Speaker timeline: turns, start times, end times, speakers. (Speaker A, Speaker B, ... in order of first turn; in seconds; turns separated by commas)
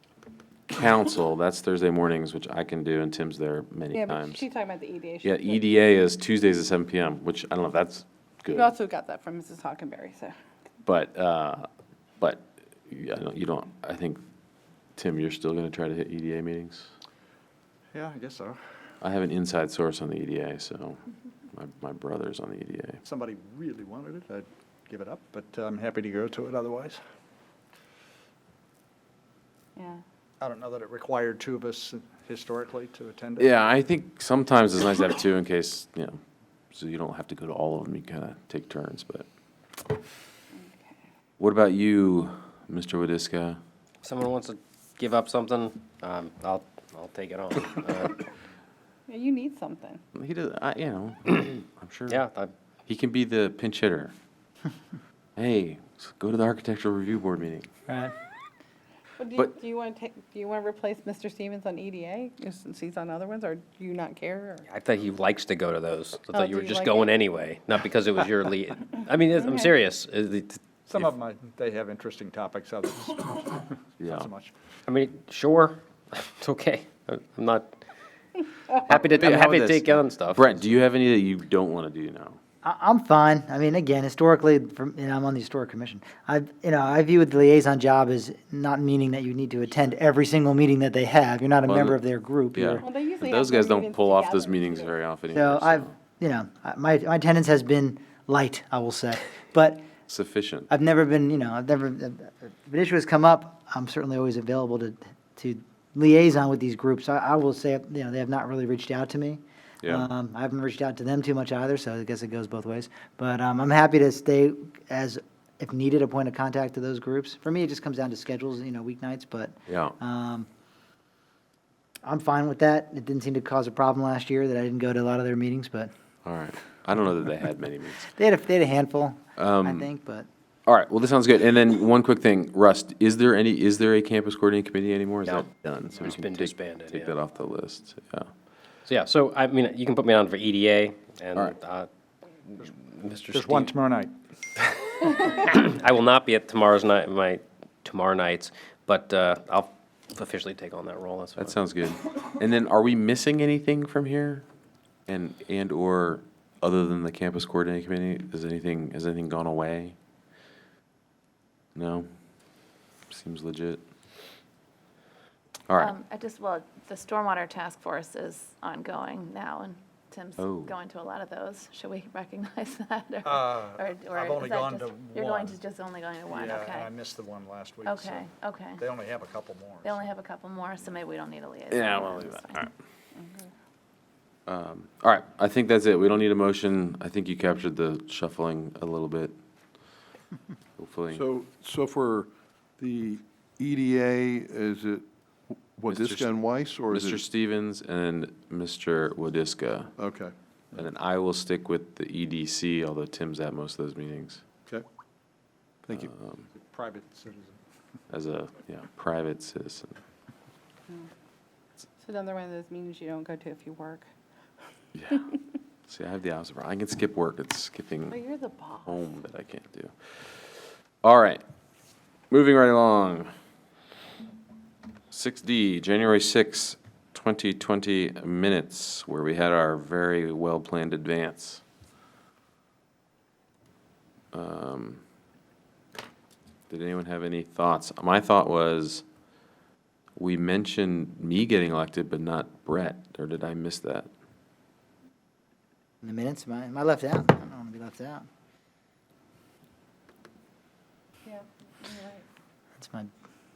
Speaker A: 0.7-4.5, Speaker B: 3.9-5.7, Speaker A: 5.2-8.7, Speaker B: 8.5-10.3, Speaker A: 10.8-11.7, Speaker A: 12.2-14.2, Speaker A: 15.0-16.9, Speaker C: 17.9-18.6, Speaker A: 19.0-21.0, Speaker A: 21.5-23.0, Speaker C: 23.1-27.0, Speaker B: 29.8-30.0, Speaker C: 30.4-33.5, Speaker A: 33.4-36.2, Speaker A: 36.7-39.3, Speaker B: 40.6-41.0, Speaker A: 41.4-43.6, Speaker D: 44.0-48.2, Speaker B: 49.1-50.0, Speaker A: 50.1-52.2, Speaker D: 52.1-52.5, Speaker A: 52.9-54.1, Speaker A: 55.4-57.7, Speaker E: 57.9-58.1, Speaker B: 59.2-64.7, Speaker D: 64.7-71.1, Speaker B: 66.3-67.2, Speaker B: 69.4-69.7, Speaker C: 70.9-74.5, Speaker A: 74.0-74.3, Speaker D: 74.9-77.8, Speaker D: 78.7-80.5, Speaker A: 79.2-82.4, Speaker E: 82.6-92.8, Speaker A: 91.7-92.0, Speaker A: 92.5-95.9, Speaker B: 92.8-95.0, Speaker E: 95.3-99.9, Speaker A: 100.1-100.7, Speaker E: 100.7-120.5, Speaker A: 109.8-110.1, Speaker A: 119.7-120.0, Speaker E: 122.0-125.9, Speaker A: 126.2-128.1, Speaker E: 128.1-130.3, Speaker A: 129.4-129.9, Speaker A: 130.7-138.3, Speaker D: 135.2-137.2, Speaker D: 138.9-141.9, Speaker D: 142.5-143.8, Speaker C: 143.2-144.1, Speaker D: 145.3-151.6, Speaker A: 151.4-154.5, Speaker A: 155.1-160.0, Speaker A: 161.8-162.1, Speaker A: 163.1-163.8, Speaker A: 165.7-165.9, Speaker F: 165.8-176.9, Speaker A: 170.4-170.8, Speaker C: 173.2-175.6, Speaker C: 176.3-180.1, Speaker F: 177.8-178.8, Speaker F: 179.8-182.7, Speaker A: 181.7-182.7, Speaker B: 183.2-183.5, Speaker A: 184.5-189.4, Speaker A: 190.8-191.2, Speaker G: 191.1-197.2, Speaker A: 195.9-196.3, Speaker A: 196.9-199.9, Speaker G: 200.0-200.8, Speaker A: 200.8-204.4, Speaker A: 205.9-206.5, Speaker C: 206.6-207.6, Speaker A: 208.1-210.0, Speaker B: 212.0-214.1, Speaker A: 214.9-215.2, Speaker A: 215.9-218.2, Speaker B: 218.1-219.1, Speaker A: 218.8-221.4, Speaker A: 222.3-223.3, Speaker A: 225.1-231.6, Speaker A: 234.3-235.0, Speaker A: 236.7-239.1, Speaker A: 240.2-244.1, Speaker E: 246.0-248.3, Speaker B: 251.3-252.2, Speaker E: 252.8-253.1